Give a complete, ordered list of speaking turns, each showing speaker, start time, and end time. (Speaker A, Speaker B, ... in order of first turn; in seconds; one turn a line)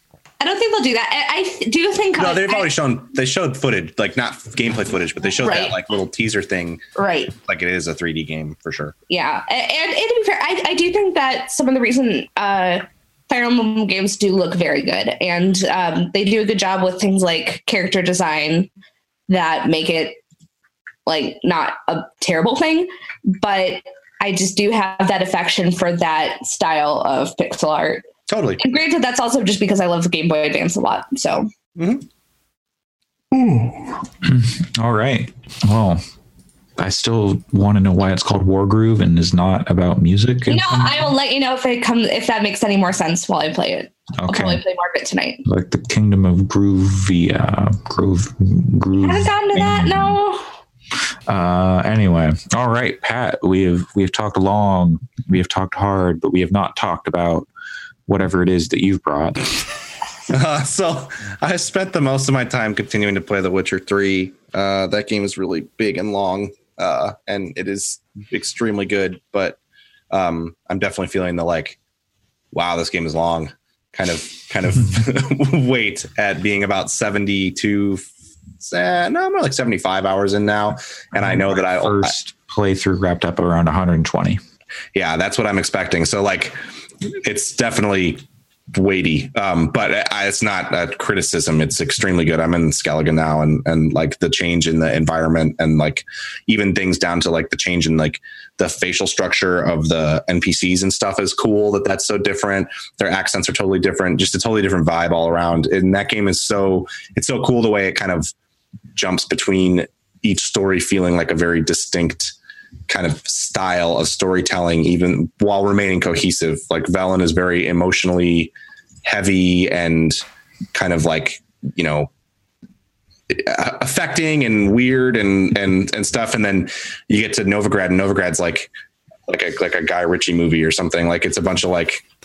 Speaker A: 0.4-2.7
Speaker B: 2.2-6.8
Speaker A: 5.4-5.8
Speaker A: 7.0-7.3
Speaker B: 7.3-8.9
Speaker A: 9.1-18.7
Speaker A: 19.3-20.2
Speaker A: 21.1-28.0
Speaker B: 28.3-28.6
Speaker A: 28.6-31.5
Speaker B: 31.8-32.0
Speaker B: 33.3-33.7
Speaker C: 34.2-36.0
Speaker C: 36.8-41.1
Speaker A: 40.5-45.4
Speaker C: 44.2-44.6
Speaker C: 45.4-50.2
Speaker A: 49.0-50.5
Speaker C: 51.3-57.5
Speaker C: 58.1-59.6
Speaker B: 60.3-69.6
Speaker B: 70.1-71.8
Speaker B: 72.5-78.1
Speaker B: 78.6-82.1
Speaker C: 81.1-84.4
Speaker B: 84.9-86.6
Speaker B: 87.2-108.3
Speaker B: 108.9-112.3
Speaker B: 112.9-118.5
Speaker B: 119.0-120.2
Speaker B: 120.7-122.1
Speaker B: 123.3-128.7
Speaker B: 129.3-132.0